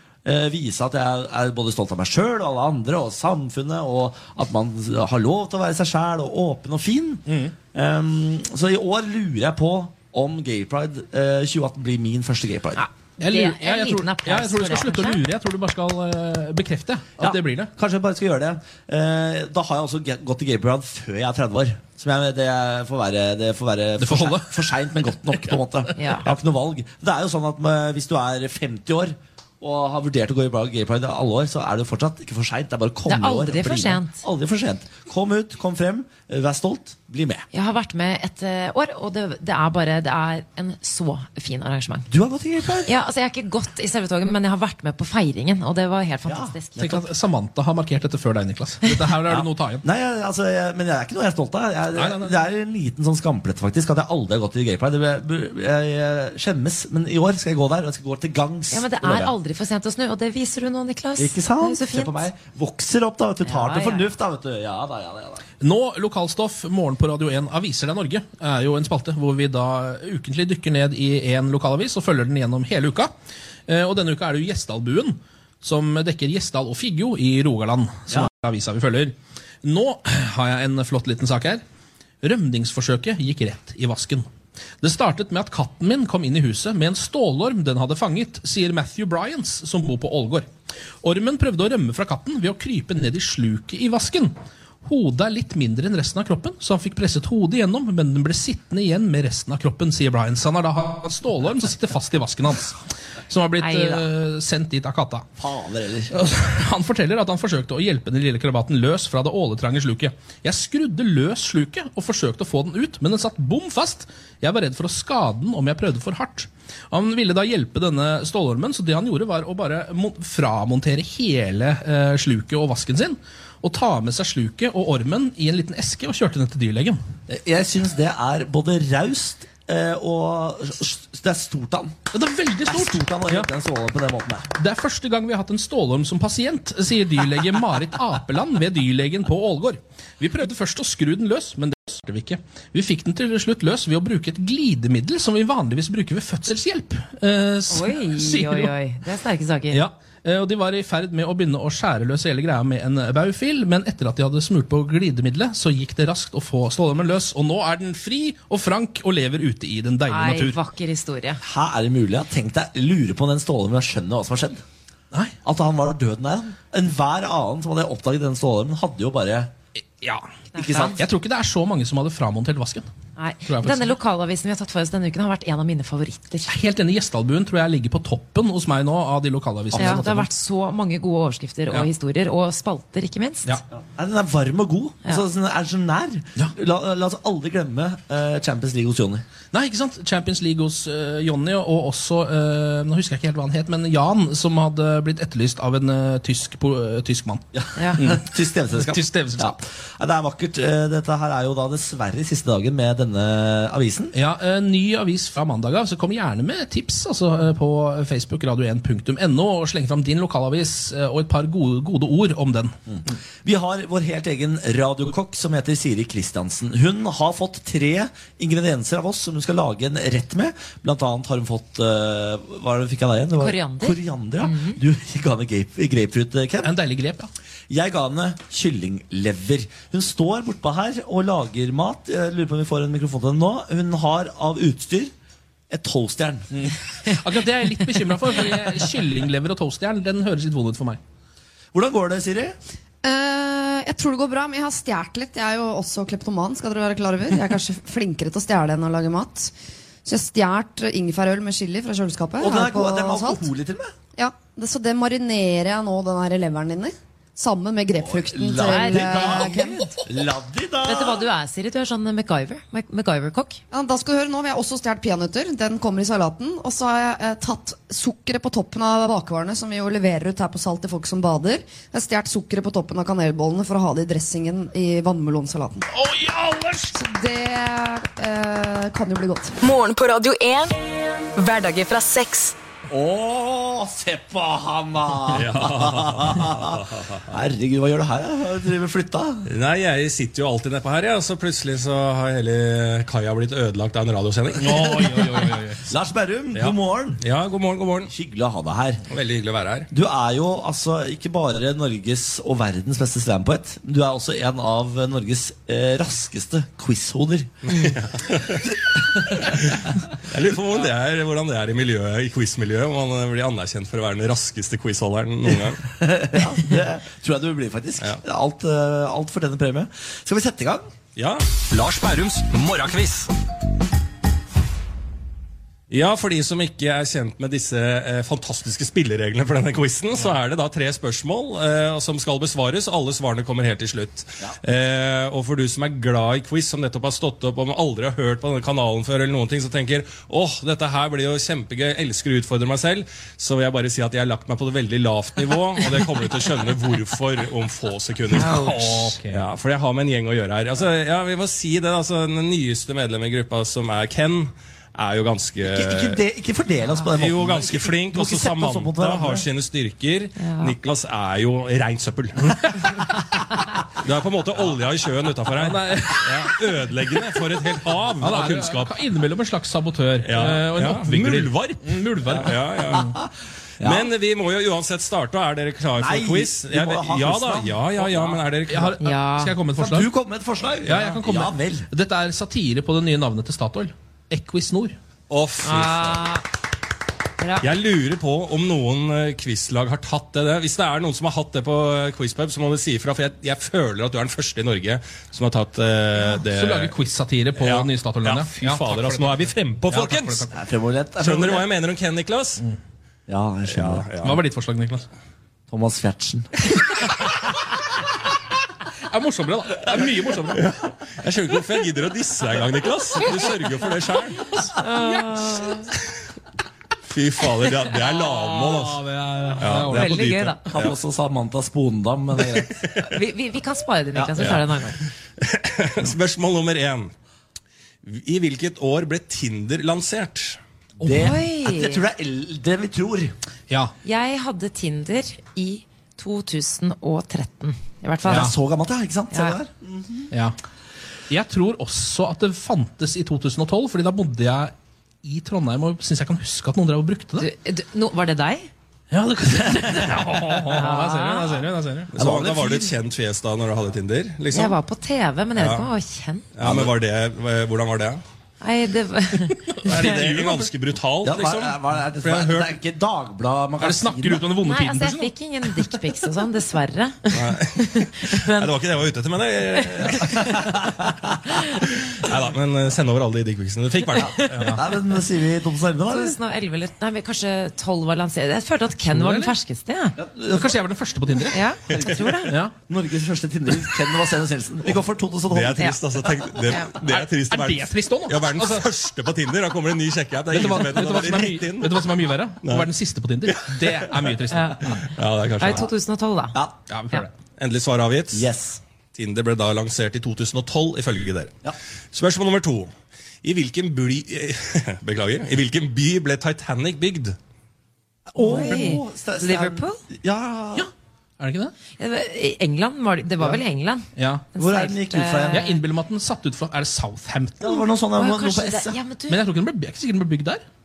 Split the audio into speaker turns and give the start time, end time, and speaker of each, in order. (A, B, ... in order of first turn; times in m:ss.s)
0:00.2-0:12.8 A
0:07.3-0:07.5 B
0:12.8-0:15.2 C
0:13.2-0:17.7 B
0:17.2-0:37.4 A
0:24.0-0:24.6 B
0:26.0-0:26.2 C
0:33.1-0:34.2 C
0:37.5-0:42.1 C
0:42.1-0:42.9 A
0:42.9-0:47.1 C
0:46.3-0:46.9 A
0:46.8-0:49.8 B
0:49.3-0:59.3 A
0:52.0-0:52.3 B
0:58.7-1:02.2 C
1:01.2-1:05.4 A
1:03.4-1:04.1 C
1:05.6-1:13.1 B
1:13.7-1:21.6 B
1:22.2-1:24.3 B
1:24.8-1:30.5 B
1:31.0-1:34.3 B
1:34.8-1:45.3 B
1:43.6-1:44.1 C
1:45.4-1:46.1 A
1:46.1-2:07.0 B
2:07.3-2:12.0 A
2:12.1-2:13.5 B
2:12.7-2:14.5 A
2:14.6-2:28.7 B
2:27.7-2:29.8 C
2:29.7-2:40.6 B
2:40.1-2:41.4 C
2:41.4-2:44.6 A
2:45.4-2:49.5 A
2:50.0-2:50.3 B
2:50.5-2:51.0 C
2:50.6-2:51.0 A
2:50.8-2:52.9 B
2:53.2-2:56.5 C
2:53.5-2:54.0 B
2:56.5-3:00.3 B
2:59.7-3:00.1 A
2:59.8-3:03.5 C
3:04.0-3:09.2 A
3:09.5-3:17.4 B
3:17.5-3:24.2 A
3:18.0-3:19.6 B
3:24.1-3:32.7 B
3:32.9-3:46.7 A
3:43.4-3:44.8 C
3:46.6-3:47.3 B
3:47.7-3:55.1 A
3:55.7-3:56.5 A
3:56.5-4:01.0 B
4:01.7-4:02.6 A
4:03.0-4:09.5 D
4:10.0-4:13.5 D
4:12.4-4:13.9 A
4:14.2-4:20.0 D
4:18.0-4:21.3 A
4:18.6-4:19.5 C
4:20.8-4:23.6 C
4:23.7-4:35.9 D
4:35.9-4:37.0 B
4:37.0-4:39.6 D
4:39.6-4:40.8 E
4:41.4-4:42.6 E
4:42.9-4:49.4 A
4:45.3-4:47.2 F
4:49.5-4:55.0 F
4:54.6-4:55.8 B
4:54.7-4:57.2 A
4:56.6-4:58.1 F
4:58.1-4:59.0 A
4:59.1-4:59.9 F
4:59.9-5:07.7 A
5:07.7-5:08.8 F
5:09.3-5:15.8 F
5:15.5-5:20.9 A
5:21.2-5:23.3 F
5:25.9-5:56.2 F
5:48.3-5:49.4 B
5:48.4-5:48.8 C
5:55.7-5:59.5 A
5:57.1-6:03.1 F
6:00.4-6:00.8 C
6:04.0-6:09.0 F
6:05.6-6:06.5 B
6:08.2-6:13.1 B
6:10.2-6:13.1 F
6:12.3-6:13.3 A
6:13.8-6:14.1 A
6:13.8-6:19.0 F
6:16.0-6:18.1 A
6:18.7-6:20.1 B
6:19.0-6:19.6 C
6:19.8-6:21.9 A
6:20.8-6:25.0 B
6:25.3-6:26.3 F
6:25.6-6:26.4 C
6:27.4-6:27.7 C
6:27.6-6:36.9 F
6:36.4-6:40.5 B
6:37.6-6:40.5 F
6:40.5-6:41.7 A
6:41.2-6:42.6 F
6:43.3-6:44.1 A
6:43.7-6:44.4 F
6:44.2-6:45.1 B
6:45.7-6:46.5 A
6:49.1-6:50.7 B
6:50.6-6:54.6 F
6:54.4-6:55.4 B
6:54.8-6:55.9 C
6:57.0-6:59.0 F
6:58.6-7:00.3 B
6:59.6-7:01.0 F
6:59.9-7:00.6 C
7:00.7-7:02.9 A
7:02.5-7:03.1 F
7:03.1-7:05.0 C
7:04.2-7:04.6 A
7:04.4-7:04.6 F
7:05.4-7:07.1 F
7:08.0-7:10.6 F
7:11.0-7:13.3 A
7:11.0-7:11.4 B
7:11.1-7:12.0 C
7:14.0-7:18.5 C
7:18.2-7:20.3 A
7:19.3-7:19.6 C
7:20.3-7:20.6 B
7:21.3-7:24.7 B
7:25.2-7:27.5 B
7:27.4-7:28.7 C
7:29.1-7:32.1 B
7:30.7-7:31.6 C
7:32.1-7:34.8 F
7:32.2-7:32.9 A
7:34.5-7:36.5 C
7:35.6-7:35.9 F
7:36.5-7:38.2 F
7:36.6-7:36.9 A
7:38.6-7:40.1 C
7:39.8-7:40.7 B
7:39.9-7:42.7 F
7:41.2-7:44.5 A
7:43.8-7:45.3 B
7:44.6-7:48.7 C
7:47.3-7:50.7 F
7:49.8-7:50.4 C
7:50.4-7:51.0 A
7:51.8-7:54.6 F
7:54.2-7:56.4 A
7:54.3-7:54.6 C
7:54.5-7:54.8 B
7:56.1-8:00.2 C
7:59.1-7:59.5 B
8:00.2-8:00.8 A
8:00.5-8:01.6 B
8:01.5-8:02.5 C
8:01.9-8:06.5 A
8:02.5-8:02.7 B
8:05.5-8:12.1 F
8:07.0-8:08.9 B
8:10.5-8:15.0 B
8:12.6-8:12.9 F
8:13.6-8:14.1 F
8:14.5-8:15.0 C
8:15.1-8:15.9 F
8:15.6-8:16.6 C
8:16.9-8:17.3 B
8:17.6-8:18.5 F
8:18.3-8:18.8 A
8:19.1-8:21.5 F
8:22.1-8:22.9 F
8:23.4-8:27.4 F
8:28.3-8:30.9 A
8:28.4-8:30.0 C
8:30.8-8:31.7 B
8:32.0-8:35.8 C
8:34.2-8:34.4 B
8:34.6-8:35.7 A
8:35.5-8:37.8 B
8:37.6-8:39.0 A
8:38.2-8:39.4 C
8:39.3-8:40.6 B